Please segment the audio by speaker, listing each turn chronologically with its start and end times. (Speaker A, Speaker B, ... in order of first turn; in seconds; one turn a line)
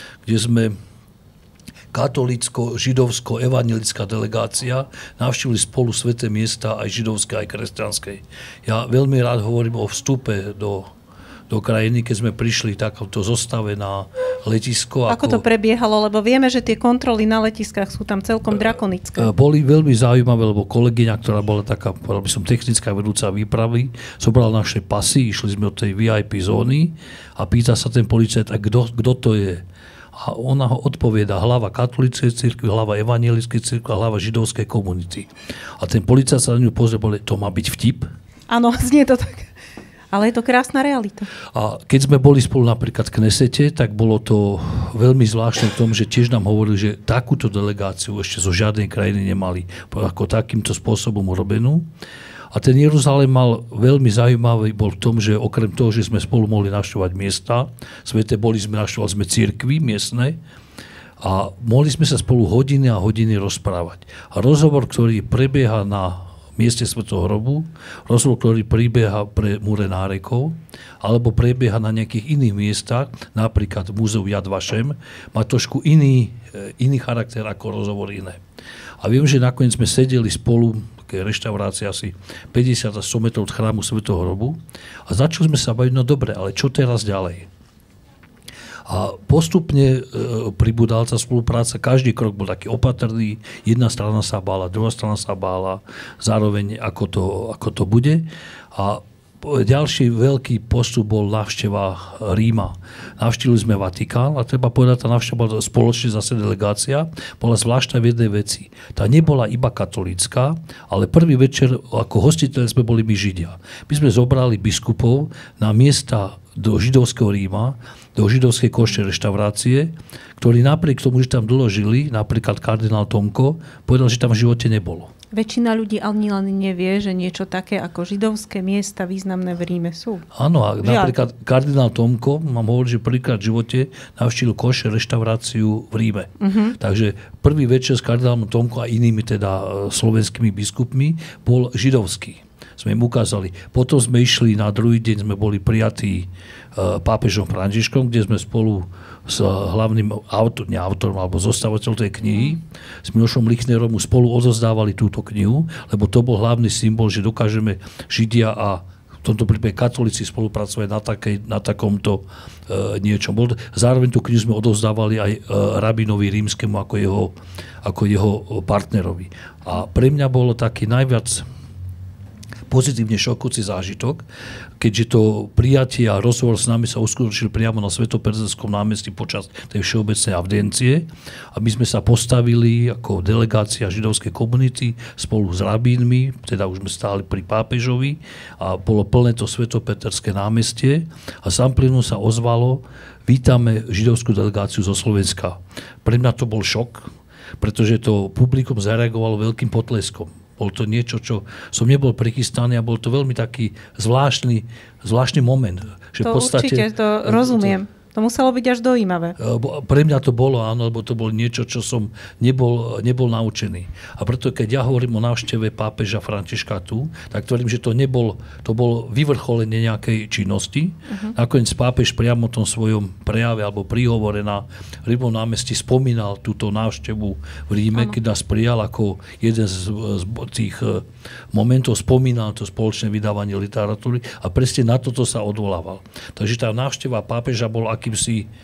Speaker A: 0.2-0.8
Speaker A: 1.9-10.9
Speaker A: 11.5-15.4
Speaker B: 15.1-19.3
Speaker A: 18.6-29.6
Speaker A: 30.1-38.1
Speaker B: 38.5-39.5
Speaker B: 40.1-41.3
Speaker A: 41.5-51.9
Speaker A: 52.5-60.4
Speaker A: 61.2-78.4
Speaker A: 79.0-87.5
Speaker A: 88.8-125.1
Speaker B: 125.3-130.3
Speaker A: 130.3-171.4
Speaker B: 130.8-131.2
Speaker B: 136.4-136.8
Speaker B: 152.3-152.6
Speaker A: 172.7-174.2
Speaker A: 174.8-207.8
Speaker B: 206.2-209.3
Speaker A: 209.4-238.5
Speaker B: 221.1-221.4